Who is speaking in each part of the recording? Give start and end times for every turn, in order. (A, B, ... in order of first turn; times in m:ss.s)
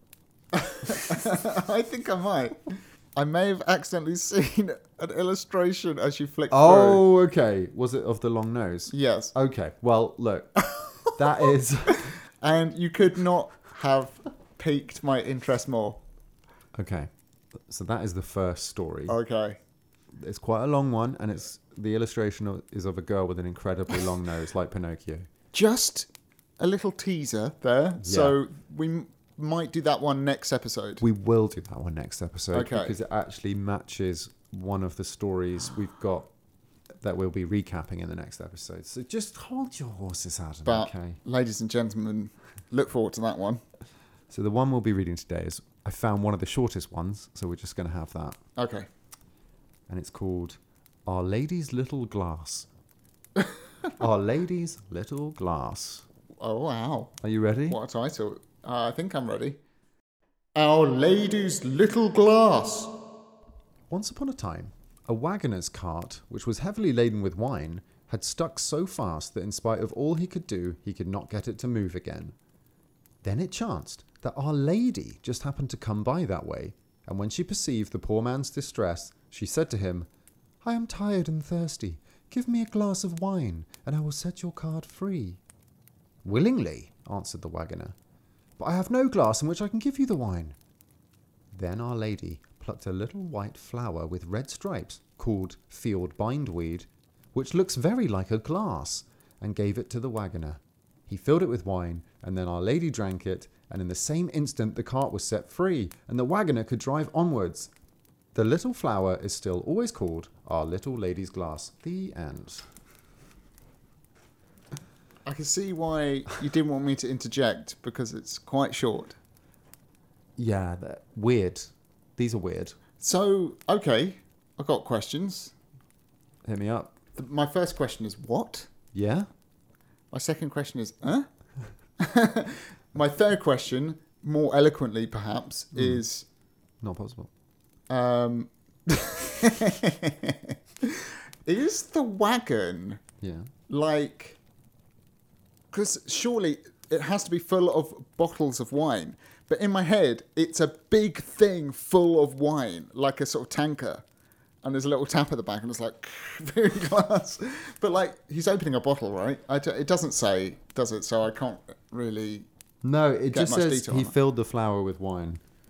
0:00.5-0:07.0 A
0:06.5-0:12.2 B
0:08.9-0:09.3 A
0:12.3-0:16.0 A
0:16.8-0:17.1 B
0:17.7-0:19.2 B
0:19.1-0:19.6 A
0:20.2-0:25.3 B
0:25.5-0:31.0 A
0:28.0-0:28.4 B
0:31.0-0:36.3 B
0:32.5-0:33.0 A
0:37.0-0:41.2 B
0:40.6-0:43.6 A
0:44.3-0:48.4 B
0:48.6-0:48.9 A
0:49.9-0:52.7 B
0:54.0-0:56.0 B
0:56.4-0:57.1 A
0:57.2-0:57.8 B
0:57.7-0:59.6 A
1:00.5-1:02.9 A
1:03.9-1:12.4 B
1:13.2-1:20.1 B
1:20.6-1:25.4 B
1:26.2-1:27.9 B
1:28.6-1:30.6 B
1:31.5-1:47.7 B
1:48.3-1:52.6 B
1:55.2-1:59.2 A
2:00.4-2:02.8 B
2:03.0-2:05.5 A
2:06.4-2:07.0 B
2:07.1-2:08.7 A
2:08.9-2:09.3 B
2:10.1-2:11.3 A
2:12.0-2:16.2 A
2:15.7-2:16.0 B
2:16.8-2:17.3 B
2:17.9-2:23.0 A
2:23.2-2:23.5 B
2:23.7-2:24.4 A
2:25.7-2:34.0 A
2:34.6-2:42.5 A
2:42.8-2:45.4 B
2:43.3-2:44.1 A